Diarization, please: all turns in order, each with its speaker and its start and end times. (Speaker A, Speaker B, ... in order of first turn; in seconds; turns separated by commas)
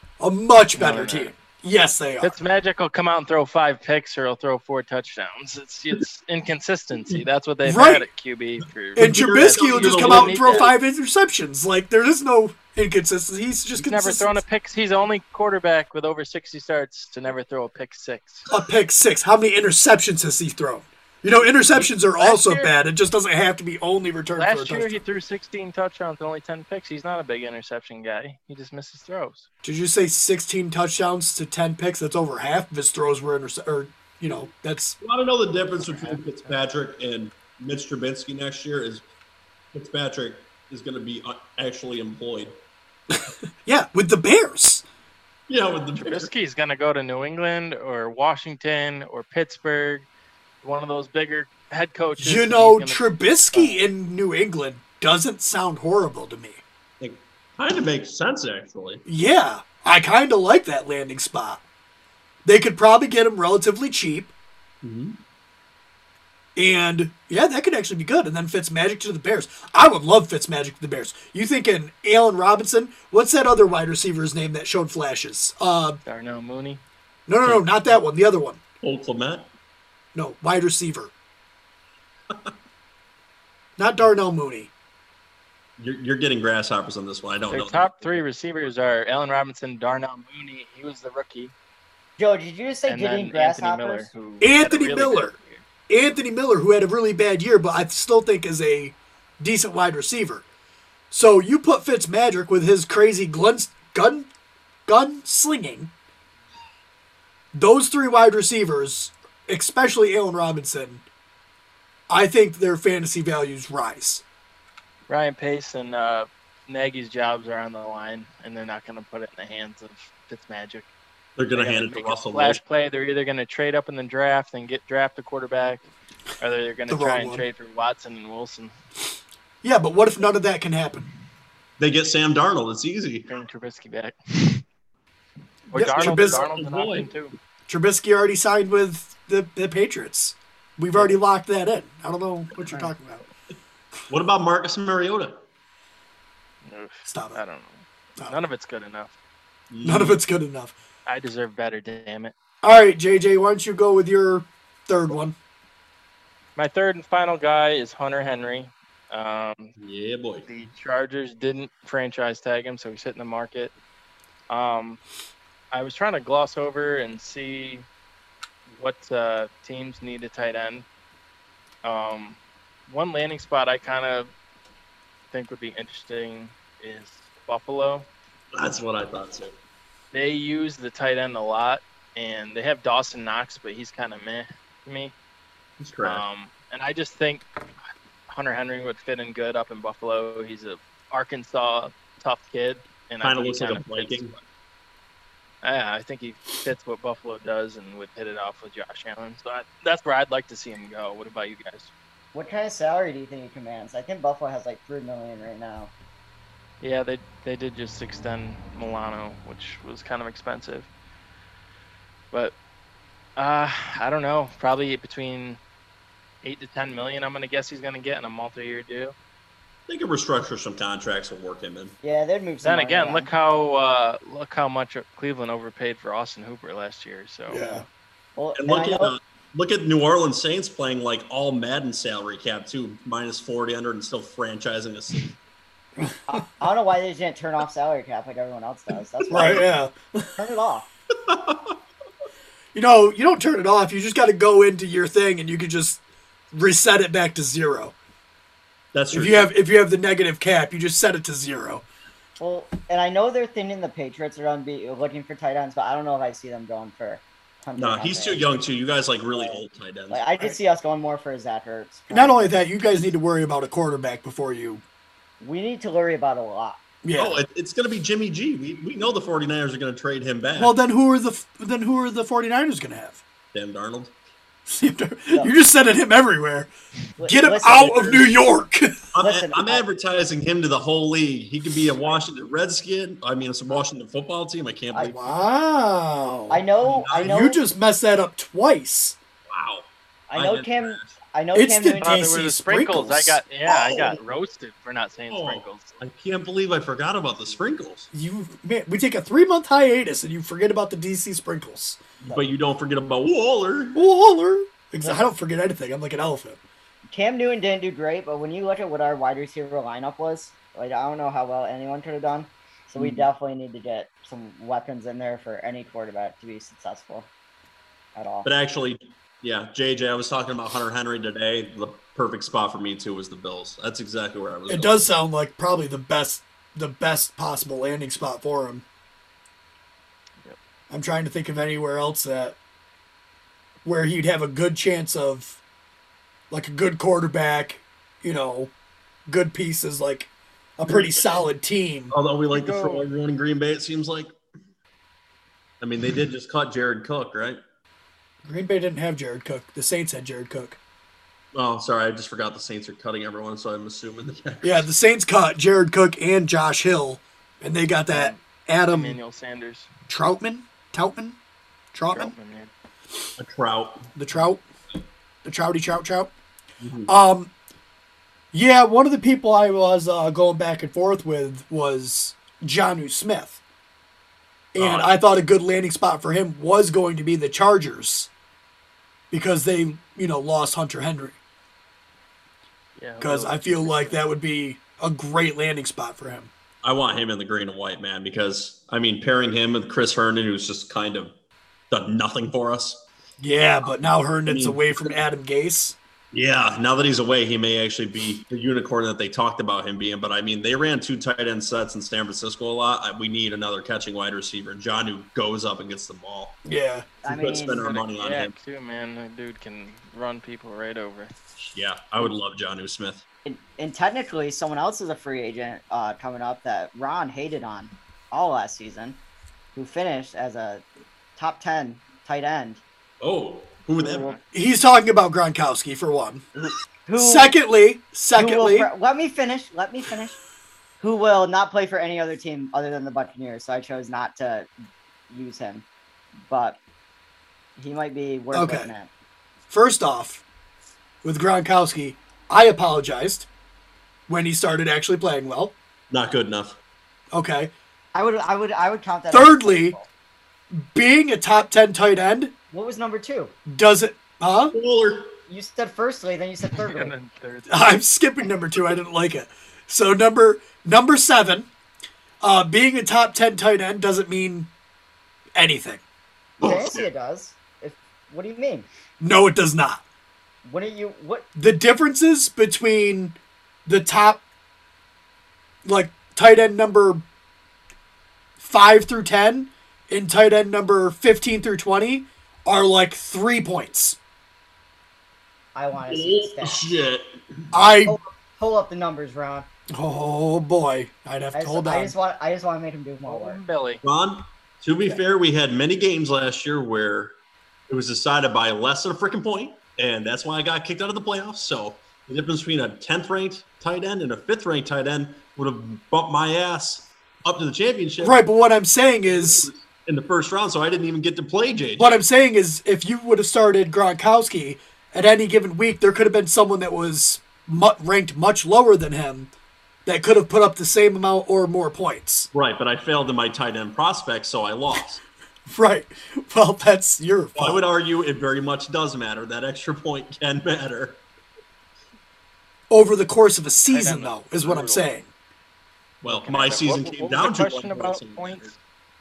Speaker A: 0.2-2.3, Speaker B: 0.7-1.3, Speaker B: 2.2-10.7, Speaker A: 7.6-8.1, Speaker C: 8.9-10.7, Speaker A: 8.9-14.4, Speaker B: 13.7-18.5, Speaker A: 18.5-25.0, Speaker B: 21.7-22.7, Speaker B: 24.4-29.5, Speaker A: 29.6-35.0, Speaker C: 35.0-39.0, Speaker B: 35.8-36.2, Speaker C: 39.7-42.5, Speaker A: 43.1-44.8, Speaker C: 45.5-46.3, Speaker B: 46.0-50.1, Speaker B: 50.6-53.8, Speaker A: 52.2-56.6, Speaker C: 57.0-59.0, Speaker A: 59.0-61.6, Speaker A: 62.4-64.3, Speaker C: 64.8-65.2, Speaker A: 66.5-76.0, Speaker B: 76.0-76.8, Speaker A: 77.3-78.6, Speaker B: 77.4-77.9, Speaker C: 78.8-79.5, Speaker A: 80.1-81.1, Speaker A: 83.8-84.7, Speaker C: 85.8-88.2, Speaker B: 87.5-91.5, Speaker D: 92.2-94.1, Speaker B: 92.9-95.6, Speaker A: 94.4-95.3, Speaker A: 95.9-100.4, Speaker A: 101.1-104.3, Speaker A: 104.9-105.9, Speaker A: 107.5-111.0, Speaker A: 112.1-114.2, Speaker B: 115.1-120.9, Speaker C: 121.4-122.6, Speaker B: 121.5-125.9, Speaker B: 126.4-128.7, Speaker A: 126.9-127.4, Speaker A: 129.6-131.1, Speaker C: 131.8-133.3, Speaker B: 133.3-134.6, Speaker B: 135.7-137.4, Speaker A: 135.7-136.5, Speaker C: 135.9-137.1, Speaker A: 137.7-143.2, Speaker C: 144.1-145.4, Speaker B: 146.6-149.1, Speaker A: 147.1-147.4, Speaker C: 149.7-150.2, Speaker A: 149.8-150.7, Speaker B: 151.1-152.3, Speaker A: 152.6-155.4, Speaker B: 156.6-159.7, Speaker C: 159.8-160.5, Speaker B: 160.5-163.7, Speaker B: 164.5-165.0, Speaker B: 165.7-167.9, Speaker B: 168.7-170.9, Speaker B: 171.8-174.3, Speaker B: 175.3-178.1, Speaker C: 178.6-179.5, Speaker B: 180.1-185.1, Speaker C: 185.8-186.2, Speaker B: 186.0-187.4, Speaker B: 188.3-194.4, Speaker C: 193.2-194.3, Speaker B: 195.6-201.9, Speaker D: 202.3-205.9, Speaker B: 206.8-210.9, Speaker B: 213.4-215.6, Speaker B: 216.4-219.1, Speaker C: 219.9-221.9, Speaker D: 222.0-223.3, Speaker B: 222.6-227.7, Speaker A: 227.5-227.8, Speaker D: 228.4-229.1, Speaker C: 228.6-235.3, Speaker A: 236.0-236.4, Speaker D: 236.3-239.7, Speaker C: 239.2-239.7, Speaker A: 239.3-240.4, Speaker D: 240.4-240.9, Speaker C: 241.3-241.7, Speaker A: 242.7-246.0, Speaker A: 246.5-247.9, Speaker C: 248.9-249.5, Speaker A: 249.1-251.8, Speaker D: 252.4-258.5, Speaker C: 257.8-260.2, Speaker D: 259.3-259.6, Speaker D: 260.1-262.6, Speaker A: 262.1-264.8, Speaker D: 265.4-266.8, Speaker A: 267.0-267.4, Speaker C: 267.1-270.7, Speaker A: 270.6-273.2, Speaker C: 273.5-274.1, Speaker A: 274.7-276.7, Speaker D: 277.2-278.1, Speaker A: 277.2-279.1, Speaker C: 277.8-278.3, Speaker C: 279.1-285.2, Speaker D: 279.2-279.8, Speaker D: 284.9-285.2, Speaker A: 285.1-289.2, Speaker D: 286.5-287.6, Speaker C: 286.8-287.4, Speaker C: 289.5-291.1, Speaker D: 290.3-292.3, Speaker A: 291.5-293.4, Speaker B: 292.0-296.0, Speaker C: 293.7-294.2, Speaker C: 295.3-298.1, Speaker A: 298.1-302.0, Speaker C: 302.2-304.0, Speaker A: 303.9-306.6, Speaker D: 305.0-305.3, Speaker D: 307.1-317.3, Speaker C: 313.0-313.3, Speaker D: 318.1-318.5, Speaker C: 318.4-325.1, Speaker A: 324.7-328.8, Speaker A: 330.9-332.6, Speaker A: 333.8-335.6, Speaker A: 336.5-338.7, Speaker A: 339.3-342.1, Speaker C: 340.9-341.5, Speaker C: 342.1-344.3, Speaker B: 342.5-343.1, Speaker C: 345.8-347.6, Speaker A: 348.4-350.8, Speaker C: 351.5-354.9, Speaker A: 354.6-359.2, Speaker B: 358.1-359.9, Speaker A: 360.1-361.4, Speaker A: 361.9-362.3, Speaker B: 362.1-362.7, Speaker C: 363.4-364.1, Speaker A: 364.1-364.6, Speaker A: 365.4-366.3, Speaker C: 366.8-367.1, Speaker A: 367.1-367.5, Speaker A: 368.5-373.6, Speaker A: 374.7-378.3, Speaker C: 374.8-375.1, Speaker A: 379.3-381.4, Speaker B: 383.0-384.2, Speaker A: 383.2-386.5, Speaker C: 386.8-391.3, Speaker C: 391.9-393.1, Speaker A: 393.4-396.0, Speaker C: 394.4-395.2, Speaker C: 396.3-406.6, Speaker A: 406.6-407.1, Speaker D: 407.2-407.8, Speaker C: 407.3-408.5, Speaker B: 407.8-411.3, Speaker C: 411.7-413.2, Speaker D: 413.4-419.2, Speaker D: 419.7-420.8, Speaker D: 421.4-422.8, Speaker C: 423.2-424.3, Speaker D: 424.0-424.4, Speaker B: 424.1-424.4, Speaker A: 424.5-426.4, Speaker D: 426.6-427.6, Speaker A: 427.1-428.9, Speaker D: 428.3-430.4, Speaker D: 431.0-434.7, Speaker D: 435.3-435.8, Speaker D: 436.4-436.8, Speaker D: 437.8-439.1, Speaker A: 438.5-438.9, Speaker A: 439.7-440.4, Speaker A: 441.2-443.5, Speaker A: 444.3-445.7, Speaker C: 446.1-446.8, Speaker A: 447.3-447.7, Speaker D: 448.1-450.1, Speaker A: 449.3-449.9, Speaker A: 450.7-452.5, Speaker D: 452.7-453.6, Speaker A: 453.7-454.7, Speaker C: 454.7-455.4, Speaker D: 455.5-457.1, Speaker B: 456.7-457.9, Speaker A: 457.7-461.7, Speaker A: 462.4-464.7, Speaker A: 465.6-466.0, Speaker C: 466.6-467.1, Speaker D: 466.6-468.9, Speaker A: 469.2-470.0, Speaker D: 470.6-471.5, Speaker A: 471.6-474.4, Speaker A: 475.8-477.2, Speaker A: 478.6-484.2, Speaker D: 485.7-486.9, Speaker C: 486.1-487.7, Speaker A: 487.7-488.2, Speaker D: 488.1-489.7, Speaker A: 489.9-492.1, Speaker D: 491.6-493.6, Speaker B: 493.3-494.0, Speaker C: 494.0-497.3, Speaker C: 497.9-508.4, Speaker A: 508.2-509.7, Speaker C: 509.3-512.2, Speaker A: 512.0-519.5, Speaker A: 520.0-522.5, Speaker C: 522.5-525.2, Speaker A: 525.7-527.8, Speaker C: 527.5-531.2, Speaker A: 532.9-535.3, Speaker B: 533.9-535.0, Speaker C: 536.2-538.7, Speaker B: 536.3-538.7